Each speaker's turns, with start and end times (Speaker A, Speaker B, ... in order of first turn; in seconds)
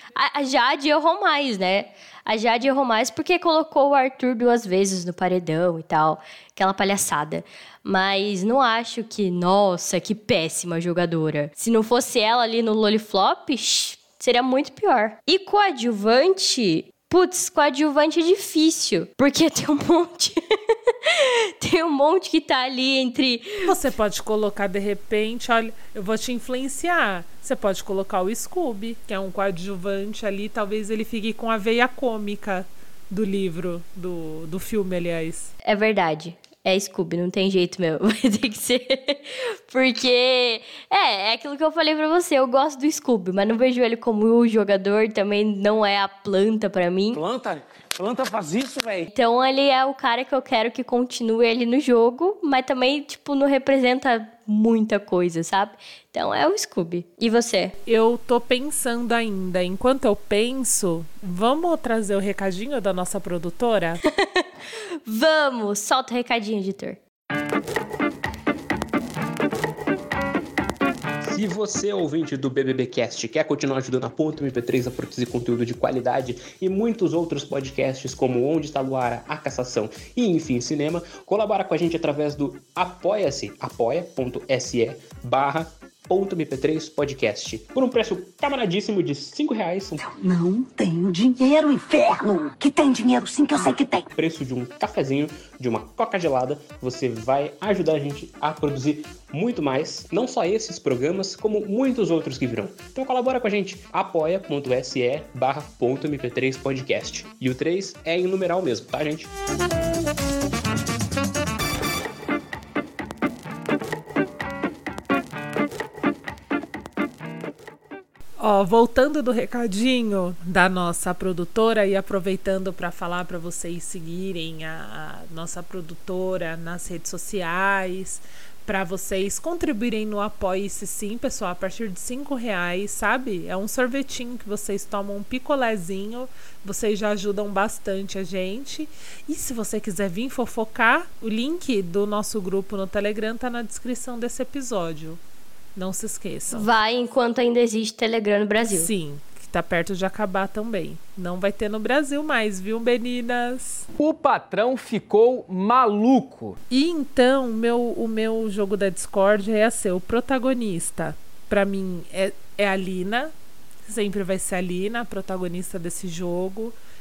Speaker A: 0.1-20.4, 21.0-23.5, 35.6-47.2, 49.1-57.7, 64.1-64.5, 65.0-67.0, 146.5-148.9
Speaker B: 23.6-35.5, 57.9-64.0, 118.4-145.2, 145.7-146.7, 148.7-153.8, 156.7-163.3, 163.9-166.7
Speaker C: 47.1-49.1, 153.9-156.6
Speaker D: 71.2-90.0, 94.2-109.3
Speaker E: 90.0-94.1